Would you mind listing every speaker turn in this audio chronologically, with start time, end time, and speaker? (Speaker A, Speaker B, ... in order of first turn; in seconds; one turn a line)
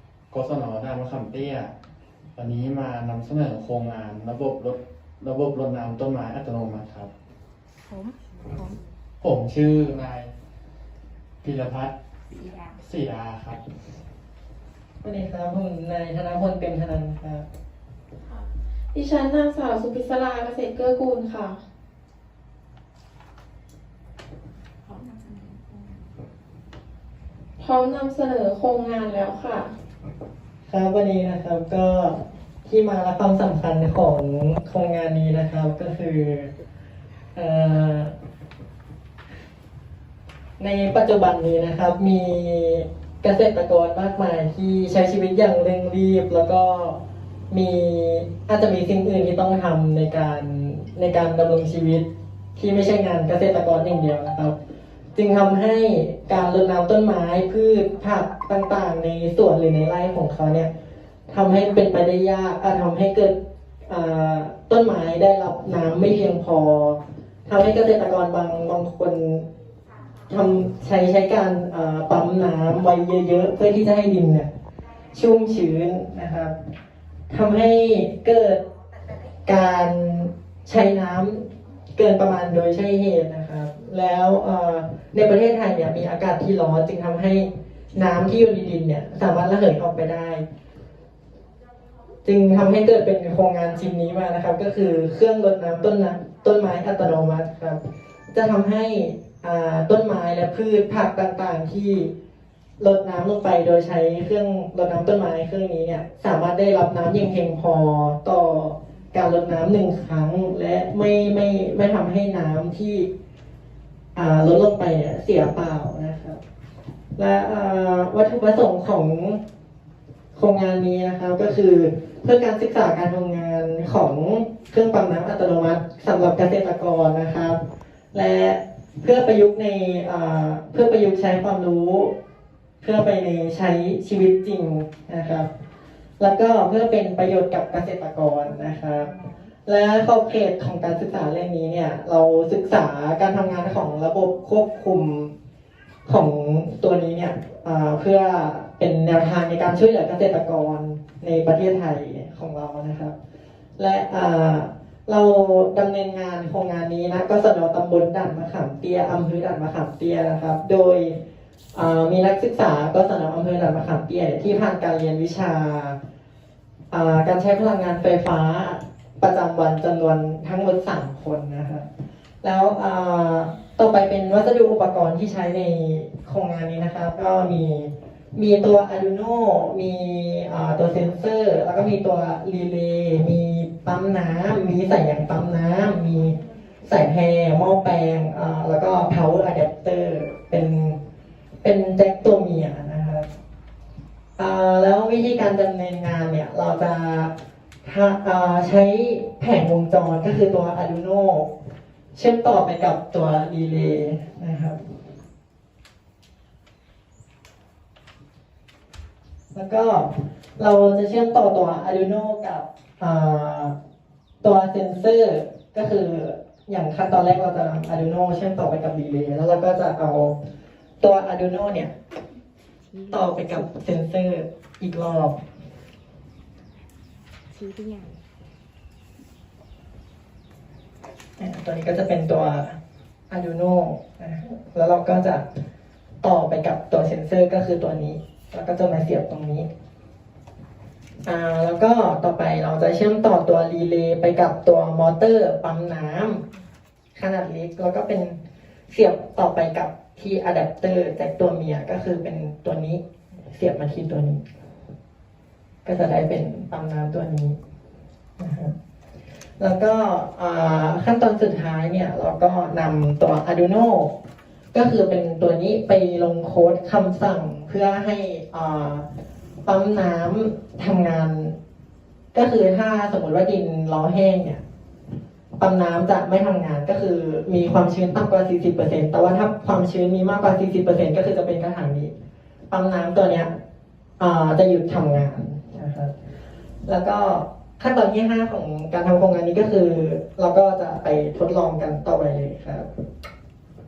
Speaker A: 0.3-1.7
Speaker A: 2.4-7.1
Speaker B: 7.9-8.8
Speaker A: 9.2-10.3
Speaker A: 11.4-11.9
Speaker B: 12.3-12.8
Speaker A: 12.8-13.6
Speaker C: 15.0-17.5
Speaker D: 18.2-21.6
Speaker D: 27.6-29.7
Speaker C: 30.7-36.5
Speaker C: 37.4-38.1
Speaker C: 40.6-54.5
Speaker C: 55.1-60.7
Speaker C: 61.3-63.4
Speaker C: 63.9-69.5
Speaker C: 70.3-74.5
Speaker C: 75.1-76.5
Speaker C: 77.3-78.6
Speaker C: 79.5-90.4
Speaker C: 92.2-97.8
Speaker C: 98.3-102.1
Speaker C: 102.8-113.1
Speaker C: 114.2-116.4
Speaker C: 117.2-119.4
Speaker C: 120.3-127.6
Speaker C: 128.1-132.2
Speaker C: 132.8-135.5
Speaker C: 136.2-139.1
Speaker B: 138.6-139.5
Speaker C: 139.7-145.3
Speaker C: 146.1-153.2
Speaker C: 153.8-161.2
Speaker C: 161.7-166.0
Speaker C: 166.9-171.9
Speaker C: 172.4-191.0
Speaker C: 191.6-193.3
Speaker C: 194.4-197.3
Speaker C: 197.8-201.5
Speaker C: 202.2-204.8
Speaker C: 209.5-213.8
Speaker C: 214.4-220.4
Speaker C: 221.0-221.9
Speaker B: 222.8-223.9
Speaker C: 223.1-225.4
Speaker B: 227.5-228.2
Speaker C: 231.4-232.8
Speaker C: 233.3-235.5
Speaker C: 236.2-239.7
Speaker C: 241.3-246.5
Speaker C: 247.2-254.4
Speaker C: 255.8-257.6
Speaker C: 258.4-258.7
Speaker C: 259.6-264.1
Speaker C: 264.7-269.1
Speaker C: 269.6-271.6
Speaker C: 272.3-274.6
Speaker C: 275.6-282.1
Speaker C: 282.7-283.5
Speaker C: 284.2-286.1
Speaker C: 286.9-292.9